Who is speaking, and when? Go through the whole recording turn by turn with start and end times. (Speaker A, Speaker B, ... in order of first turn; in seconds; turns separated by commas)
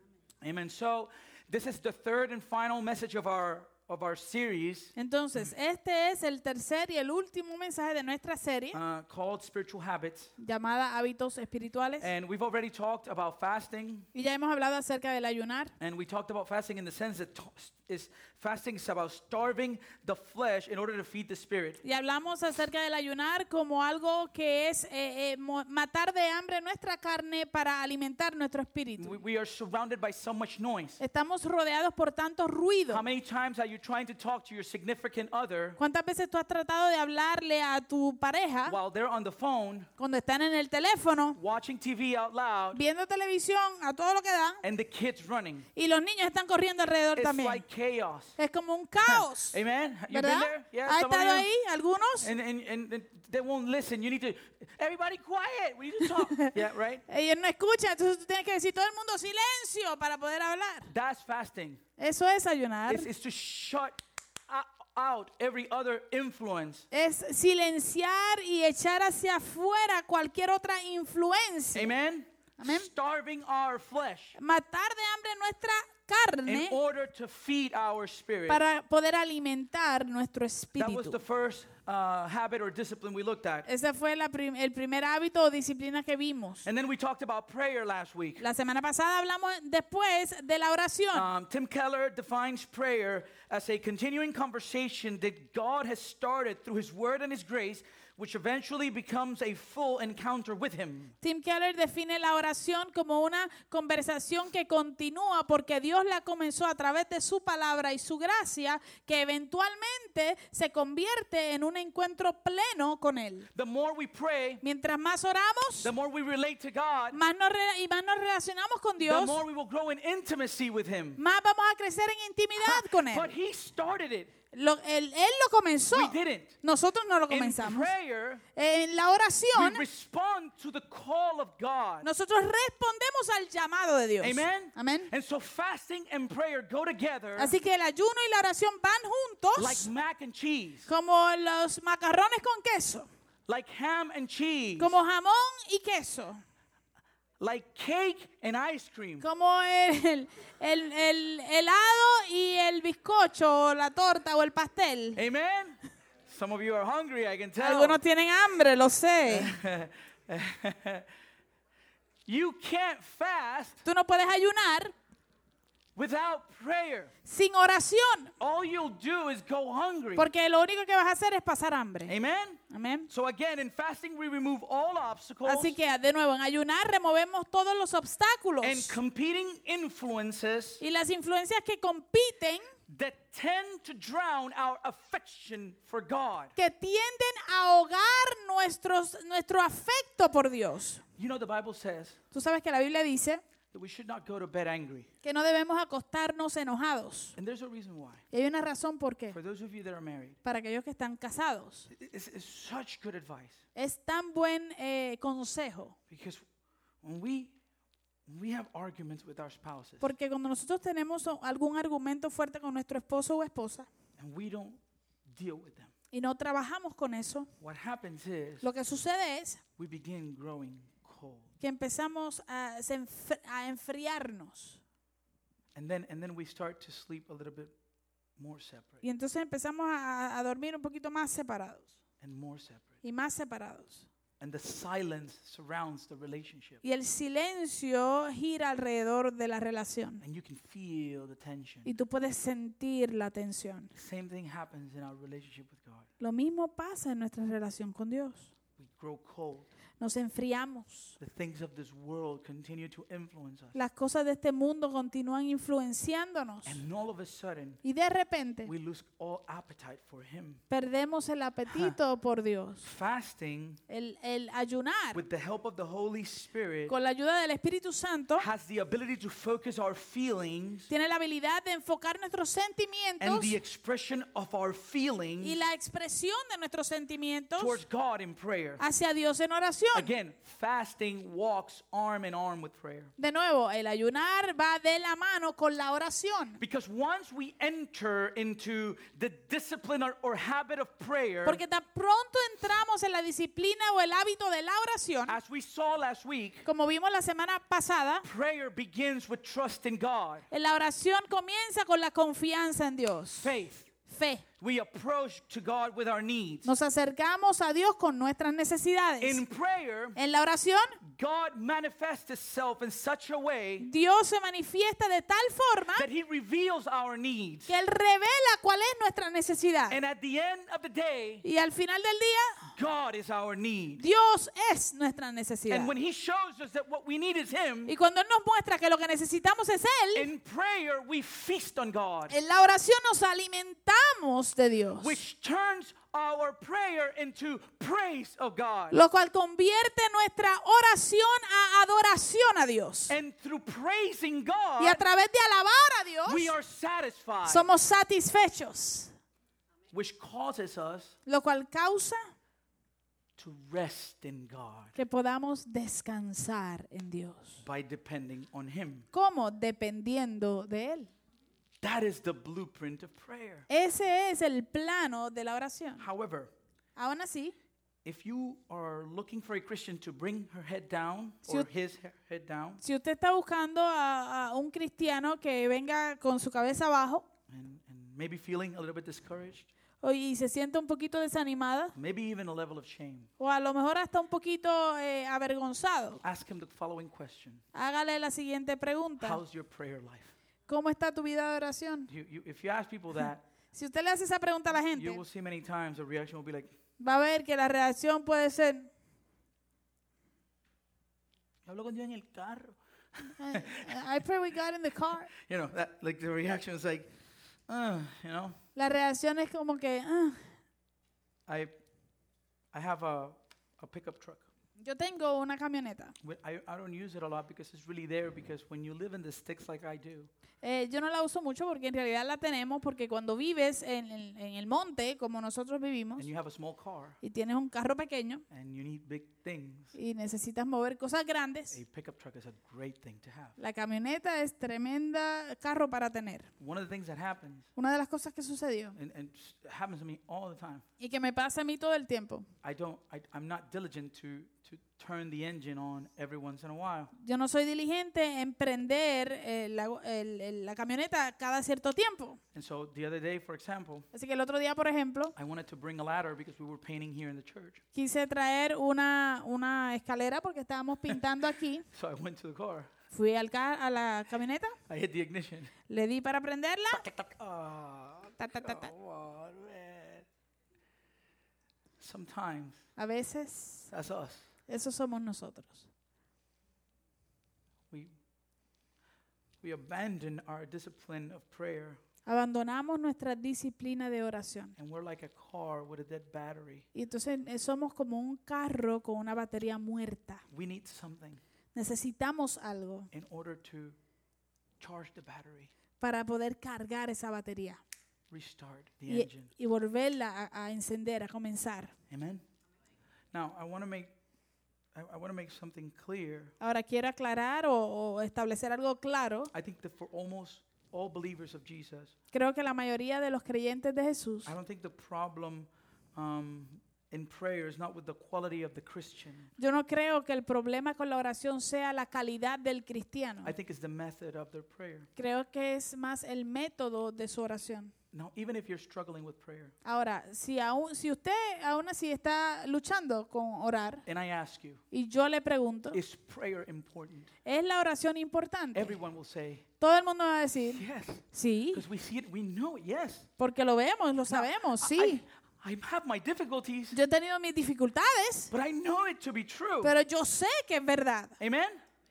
Speaker A: 0.4-5.5, Speaker B: 5.0-8.8, Speaker A: 8.7-10.3, Speaker B: 10.4-12.1, Speaker A: 12.0-14.1, Speaker B: 14.1-15.7, Speaker A: 15.8-21.8, Speaker B: 21.8-29.2, Speaker A: 29.0-31.0, Speaker B: 31.0-33.0, Speaker A: 32.9-35.8, Speaker B: 35.8-38.8, Speaker A: 38.7-39.9, Speaker B: 40.0-41.4, Speaker A: 41.4-42.8, Speaker B: 42.7-44.6, Speaker A: 44.6-45.7, Speaker B: 45.8-47.6, Speaker A: 47.2-48.4, Speaker B: 48.4-49.6, Speaker A: 49.1-51.5, Speaker B: 50.1-52.3, Speaker A: 52.2-57.0, Speaker B: 56.0-56.5, Speaker B: 57.1-60.9, Speaker A: 60.9-61.8, Speaker B: 62.0-63.1, Speaker A: 62.9-66.9, Speaker B: 66.9-71.9, Speaker A: 71.7-74.4, Speaker B: 72.6-72.9, Speaker B: 74.4-76.8, Speaker A: 76.5-78.6, Speaker B: 78.5-81.2, Speaker A: 80.8-83.7, Speaker B: 83.7-86.7, Speaker A: 86.6-88.5, Speaker B: 88.4-91.3, Speaker A: 91.1-101.2, Speaker B: 101.2-113.5, Speaker A: 113.5-114.6, Speaker B: 114.6-115.9, Speaker A: 115.8-117.2, Speaker B: 117.1-119.4, Speaker A: 119.0-121.2, Speaker B: 121.2-123.3, Speaker A: 122.6-124.3, Speaker B: 124.5-127.9, Speaker A: 125.9-126.6, Speaker A: 127.3-128.4, Speaker B: 128.6-129.8, Speaker A: 129.5-132.1, Speaker B: 132.0-135.1, Speaker A: 134.2-137.5, Speaker B: 137.4-139.9, Speaker A: 139.6-140.9, Speaker B: 140.9-143.1, Speaker A: 143.5-145.0, Speaker B: 144.8-146.4, Speaker A: 147.4-149.2, Speaker B: 149.2-155.2, Speaker A: 155.2-158.0, Speaker B: 157.6-159.6, Speaker A: 159.3-161.1, Speaker A: 162.3-163.8, Speaker B: 163.8-164.9, Speaker A: 166.0-167.1, Speaker B: 167.2-168.3, Speaker A: 168.4-170.3, Speaker B: 170.2-172.2, Speaker A: 172.1-175.8, Speaker B: 172.7-173.1, Speaker B: 175.4-179.0, Speaker A: 178.6-180.8, Speaker B: 180.8-182.7, Speaker A: 182.9-186.5, Speaker B: 186.6-191.0, Speaker A: 191.2-192.2, Speaker B: 192.3-193.4, Speaker A: 193.7-195.1, Speaker B: 195.2-197.3, Speaker A: 197.3-198.2, Speaker B: 198.3-199.4, Speaker A: 199.3-200.4, Speaker B: 200.4-201.9, Speaker A: 201.9-203.6, Speaker B: 203.8-205.9, Speaker A: 206.1-206.4, Speaker A: 207.0-207.6, Speaker A: 208.3-210.1, Speaker B: 210.0-213.9, Speaker A: 214.2-215.9, Speaker B: 216.1-217.5, Speaker A: 217.6-218.7, Speaker B: 218.6-219.6, Speaker A: 219.8-221.5, Speaker B: 221.6-224.8, Speaker A: 225.7-227.7, Speaker A: 228.4-229.0, Speaker B: 229.0-231.9, Speaker A: 232.2-232.9, Speaker B: 233.0-234.1, Speaker A: 234.4-236.8, Speaker B: 236.8-240.2, Speaker A: 240.2-241.9, Speaker B: 241.8-243.9, Speaker A: 243.9-246.1, Speaker B: 246.2-248.5, Speaker A: 248.8-249.7, Speaker B: 250.0-251.2, Speaker A: 251.2-253.8, Speaker B: 253.7-256.8, Speaker A: 256.6-257.8, Speaker B: 257.8-258.7, Speaker A: 258.6-260.6, Speaker B: 260.7-262.9, Speaker A: 261.7-262.0, Speaker A: 262.8-263.8, Speaker B: 263.9-265.2, Speaker A: 265.1-266.9, Speaker B: 266.9-268.5, Speaker A: 268.4-270.9, Speaker B: 270.9-273.6, Speaker A: 273.2-275.6, Speaker B: 275.4-277.8, Speaker A: 277.6-278.8, Speaker B: 278.8-280.1, Speaker A: 279.9-283.1, Speaker B: 283.2-286.6, Speaker A: 286.6-291.6, Speaker B: 291.4-295.4, Speaker A: 295.3-296.7, Speaker B: 296.6-298.2, Speaker A: 298.2-300.5, Speaker B: 300.5-304.4, Speaker A: 303.4-303.9, Speaker A: 304.6-306.7, Speaker B: 306.6-309.4, Speaker A: 309.2-310.2, Speaker B: 310.1-311.0, Speaker A: 311.0-313.9, Speaker B: 313.8-316.1, Speaker A: 316.0-317.7, Speaker B: 317.7-320.0, Speaker A: 319.9-321.4, Speaker B: 321.4-322.6, Speaker A: 322.6-324.0, Speaker B: 324.0-325.9, Speaker A: 325.7-327.9, Speaker B: 327.9-330.3, Speaker A: 330.1-332.4, Speaker B: 332.3-335.2, Speaker A: 335.0-339.0, Speaker B: 338.9-343.1, Speaker A: 343.1-345.0, Speaker B: 344.8-346.6, Speaker A: 346.2-347.7, Speaker B: 347.5-349.1, Speaker A: 349.9-351.1, Speaker B: 351.2-352.2, Speaker A: 353.4-355.0, Speaker B: 354.9-357.6, Speaker A: 357.6-359.1, Speaker B: 359.1-361.1, Speaker A: 361.8-363.7, Speaker B: 363.7-366.0, Speaker A: 366.0-366.5, Speaker B: 367.0-367.5, Speaker A: 368.0-372.8, Speaker B: 372.8-377.2, Speaker A: 377.5-379.7, Speaker B: 380.0-381.9, Speaker A: 381.9-383.3, Speaker B: 383.4-386.2, Speaker A: 386.2-387.6, Speaker B: 387.7-389.4, Speaker A: 389.2-390.3, Speaker B: 390.7-392.1, Speaker A: 392.1-393.4, Speaker B: 393.7-395.2, Speaker A: 394.9-396.7, Speaker B: 397.0-398.9, Speaker A: 401.6-404.0, Speaker B: 403.4-405.3, Speaker A: 405.3-407.1, Speaker A: 407.7-408.6, Speaker B: 408.8-410.5, Speaker A: 411.5-411.7, Speaker A: 412.7-414.5, Speaker B: 414.8-416.1, Speaker A: 416.2-420.3, Speaker B: 420.6-426.3, Speaker A: 426.2-427.2, Speaker B: 427.2-428.4, Speaker A: 428.5-430.0, Speaker B: 429.9-431.8, Speaker A: 431.7-433.6, Speaker B: 433.6-436.5, Speaker A: 436.6-437.7, Speaker B: 437.8-439.0, Speaker A: 438.9-440.9, Speaker B: 441.0-442.5, Speaker A: 442.6-447.1, Speaker B: 447.1-452.4, Speaker A: 452.5-454.1, Speaker B: 454.1-455.3, Speaker A: 455.4-457.8, Speaker B: 457.9-461.9, Speaker A: 461.9-462.9, Speaker B: 463.1-464.8, Speaker A: 464.9-465.7, Speaker B: 465.9-467.0, Speaker A: 466.9-470.2, Speaker B: 468.4-468.9, Speaker A: 472.0-472.9, Speaker B: 473.0-473.9, Speaker A: 473.9-474.5, Speaker B: 474.7-475.9, Speaker A: 479.6-482.0, Speaker B: 482.2-484.8, Speaker A: 484.8-486.9, Speaker B: 486.9-490.4, Speaker A: 490.5-491.4, Speaker B: 491.7-493.1, Speaker A: 493.1-494.0, Speaker A: 494.8-495.7, Speaker B: 496.0-497.8, Speaker A: 498.3-499.5, Speaker B: 499.1-501.9, Speaker A: 502.1-502.4, Speaker A: 503.3-504.1, Speaker A: 504.9-506.5, Speaker B: 506.6-509.5, Speaker A: 509.5-512.1, Speaker B: 512.3-514.5, Speaker A: 514.5-519.5, Speaker B: 519.6-523.5, Speaker A: 523.4-525.1, Speaker B: 525.2-527.9, Speaker A: 528.1-529.8, Speaker B: 529.9-534.0, Speaker A: 534.1-534.8, Speaker B: 534.9-536.0, Speaker A: 535.9-537.3, Speaker B: 537.5-539.0, Speaker A: 538.7-539.7, Speaker B: 539.8-541.9, Speaker A: 540.7-543.3, Speaker B: 543.4-545.2, Speaker A: 544.3-547.0, Speaker B: 546.9-548.5, Speaker A: 548.5-550.0, Speaker B: 549.8-551.4, Speaker A: 551.4-551.8